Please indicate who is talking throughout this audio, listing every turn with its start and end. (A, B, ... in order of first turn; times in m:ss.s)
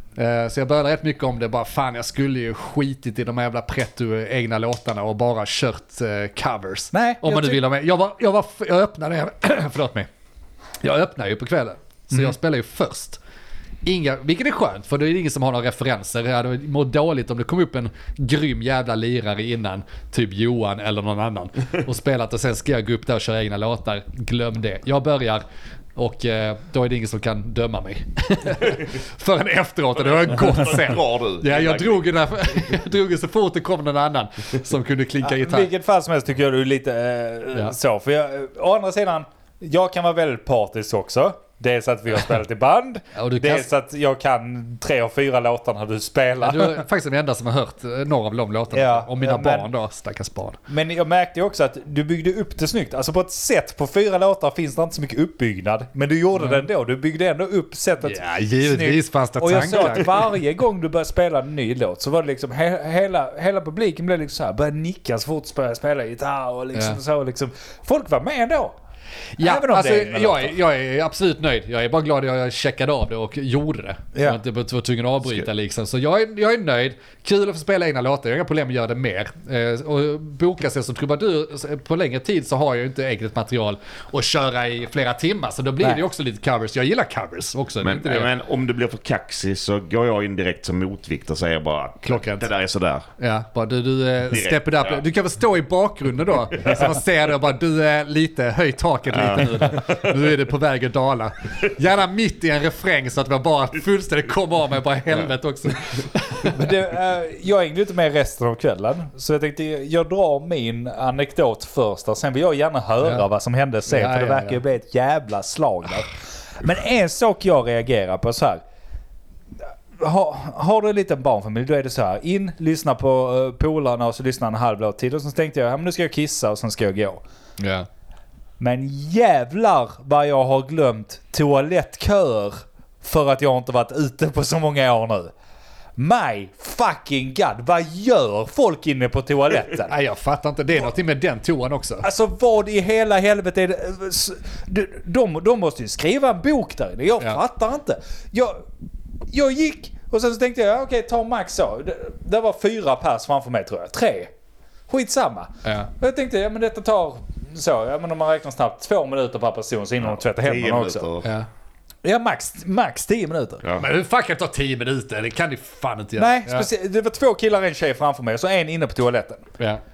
0:00.2-0:10.1 A
0:06.9-0:07.6 B
0:10.8-0:13.2 A
0:13.8-0:25.4 A
0:26.0-0:35.7 A
0:30.0-0:32.7 C
0:35.2-0:46.8 B
0:43.2-0:43.7 A
0:46.4-0:50.6 A
0:48.7-0:49.7 B
0:50.7-1:08.8 B
0:56.4-0:56.6 A
0:58.0-1:00.2 A
1:06.7-1:07.0 A
1:09.4-1:28.3 A
1:09.4-1:10.6 B
1:14.2-1:14.4 B
1:27.8-1:33.1 C
1:32.0-1:32.5 A
1:33.2-1:46.7 A
1:34.3-1:35.0 C
1:39.1-1:40.2 C
1:46.5-1:58.6 B
1:53.9-1:54.6 A
2:00.0-2:07.2 B
2:07.6-2:07.9 A
2:08.6-2:15.3 B
2:16.0-2:19.9 B
2:19.9-2:22.1 A
2:22.0-2:28.6 B
2:29.3-2:34.3 B
2:34.9-2:41.1 B
2:35.6-2:35.9 A
2:40.1-2:41.3 C
2:41.2-2:41.5 A
2:42.0-2:43.6 B
2:43.8-2:46.7 A
2:46.2-2:49.4 B